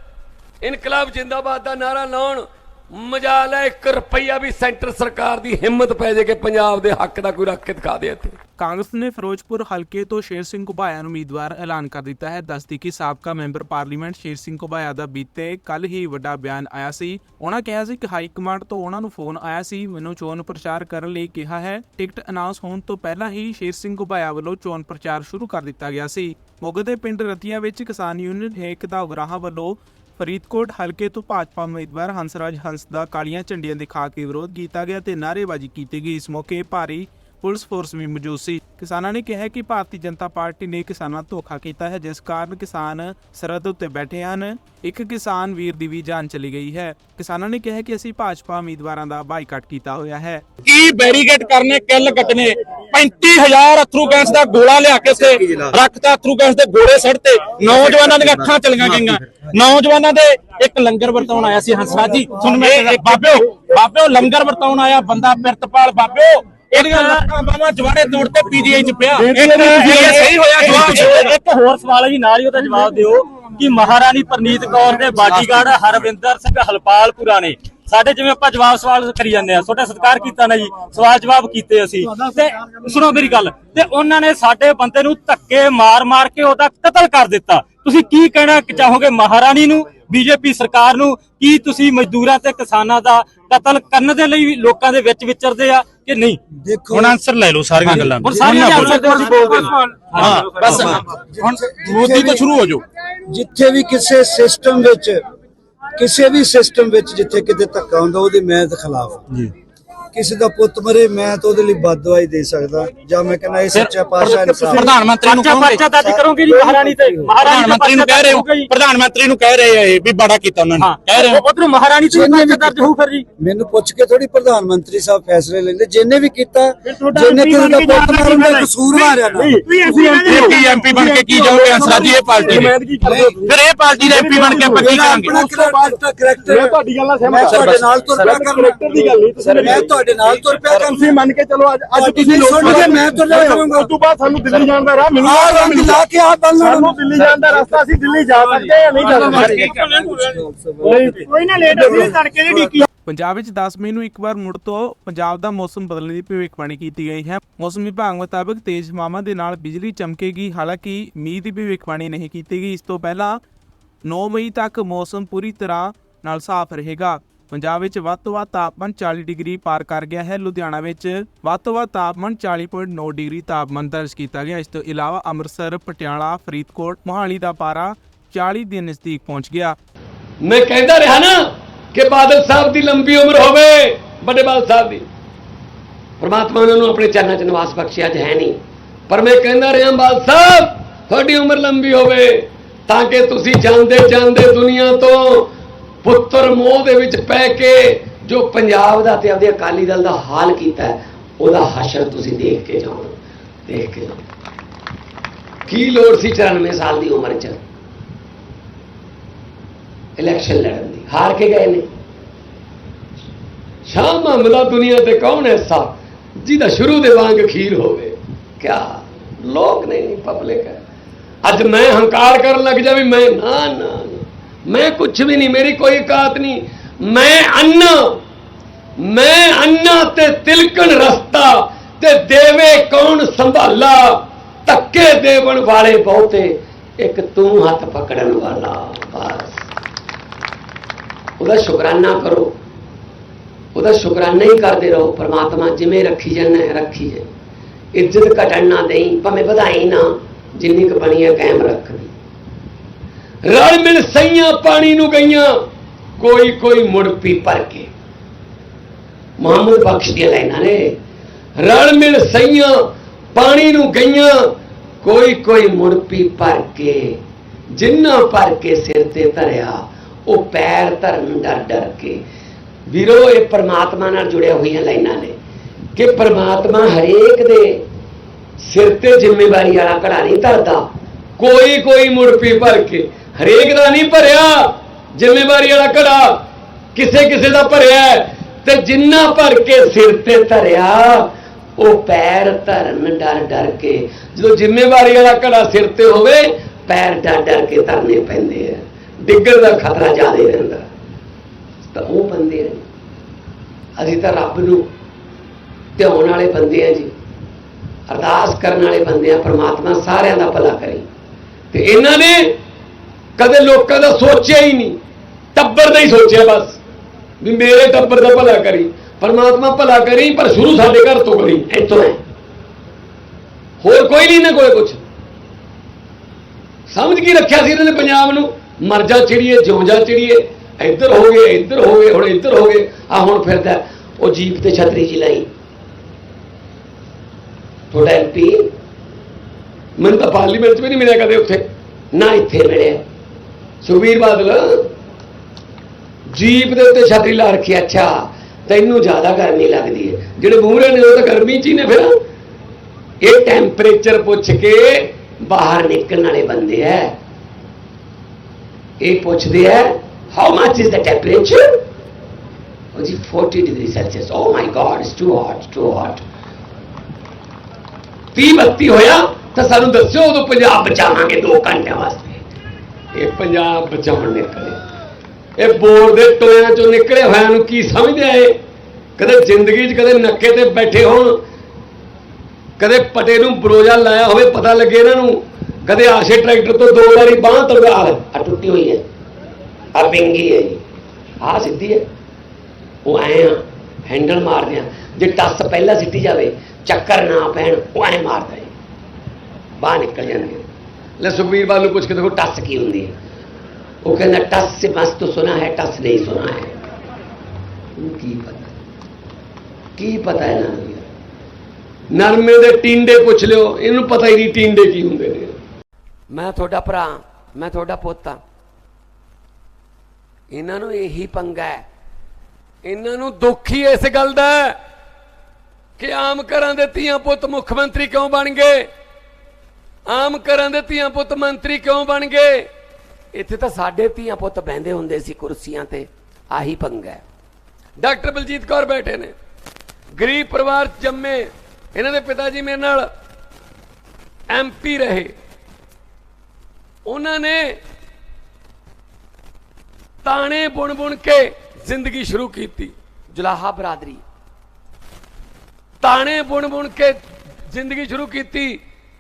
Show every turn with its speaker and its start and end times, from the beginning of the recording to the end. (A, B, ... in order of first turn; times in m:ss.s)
0:00.6-0:08.4 A
0:08.6-0:50.4 B
0:50.6-1:11.4 C
1:06.8-1:07.0 D
1:09.2-1:10.4 E
1:10.6-1:36.4 D
1:36.6-1:37.2 F
1:37.2-1:41.0 D
1:37.8-1:39.4 C
1:38.0-1:39.1 F
1:40.2-1:42.8 C
1:40.6-1:42.5 F
1:43.3-1:45.2 F
1:46.0-1:49.2 F
1:50.1-1:54.9 F
1:53.8-1:55.9 C
1:54.3-1:58.7 D
1:55.9-1:57.3 F
1:57.4-2:01.4 C
2:00.8-2:03.2 D
2:02.1-2:02.8 F
2:03.4-2:10.4 F
2:07.2-2:08.7 E
2:09.4-2:15.9 E
2:10.2-2:12.8 C
2:13.0-2:13.4 F
2:13.4-2:15.4 C
2:14.4-2:21.2 F
2:16.5-2:26.0 E
2:17.4-2:17.8 C
2:21.9-2:23.9 F
2:25.2-2:27.8 F
2:26.6-2:29.6 E
2:29.0-2:32.8 F
2:29.4-2:29.7 D
2:30.8-2:32.8 E
2:33.1-2:43.4 B
2:44.1-2:59.8 B
3:00.4-3:01.4 A
3:01.9-3:05.1 A
3:06.2-3:08.6 A
3:09.1-3:15.5 A
3:16.0-3:23.2 A
3:23.7-3:24.2 A
3:25.7-3:27.6 A
3:30.2-3:31.9 A
3:33.9-3:40.8 A
3:41.4-3:48.2 A
3:49.0-3:59.6 A
4:01.4-4:02.5 A
4:03.8-4:07.3 A
4:07.9-4:12.1 A
4:13.4-4:15.6 A
4:16.2-4:17.9 A
4:19.4-4:21.0 A
4:21.6-4:22.8 A
4:23.4-4:27.2 A
4:27.7-4:32.2 A
4:32.9-4:35.4 A
4:36.0-4:37.8 A
4:38.6-4:40.9 A
4:41.4-4:46.4 A
4:47.0-4:51.3 A
4:51.8-5:00.9 A
5:01.9-5:02.8 A
5:04.0-5:04.9 A
5:06.0-5:07.1 A
5:08.1-5:11.1 A
5:11.7-5:12.5 A
5:13.4-5:15.0 A
5:15.6-5:16.8 A
5:17.4-5:22.2 A
5:23.8-5:25.0 A
5:26.9-5:35.5 A
5:37.9-5:38.7 A
5:40.0-5:43.0 A
5:43.8-5:44.9 A
5:46.3-5:52.1 A
5:53.2-5:57.1 A
5:59.0-6:01.7 A
6:02.9-6:06.2 A
6:08.4-6:12.4 A
6:13.1-6:14.8 A
6:15.6-6:18.6 A
6:19.2-6:21.4 A
6:22.8-6:29.0 A
6:30.0-6:30.8 A
6:31.4-6:32.1 A
6:33.0-6:38.7 A
6:39.8-6:40.6 A
6:41.2-6:43.1 A
6:44.0-6:46.8 A
6:48.0-6:48.8 A
6:50.0-6:51.1 A
6:52.1-6:55.6 A
6:56.3-6:58.4 A
7:00.5-7:01.8 A
7:02.8-7:04.8 A
7:06.0-7:08.9 A
7:10.1-7:12.7 A
7:13.3-7:17.2 A
7:18.0-7:19.3 A
7:20.2-7:23.1 A
7:24.5-7:25.3 A
7:27.1-7:27.8 A
7:30.2-7:34.2 A
7:36.0-7:37.2 A
7:37.7-7:38.8 A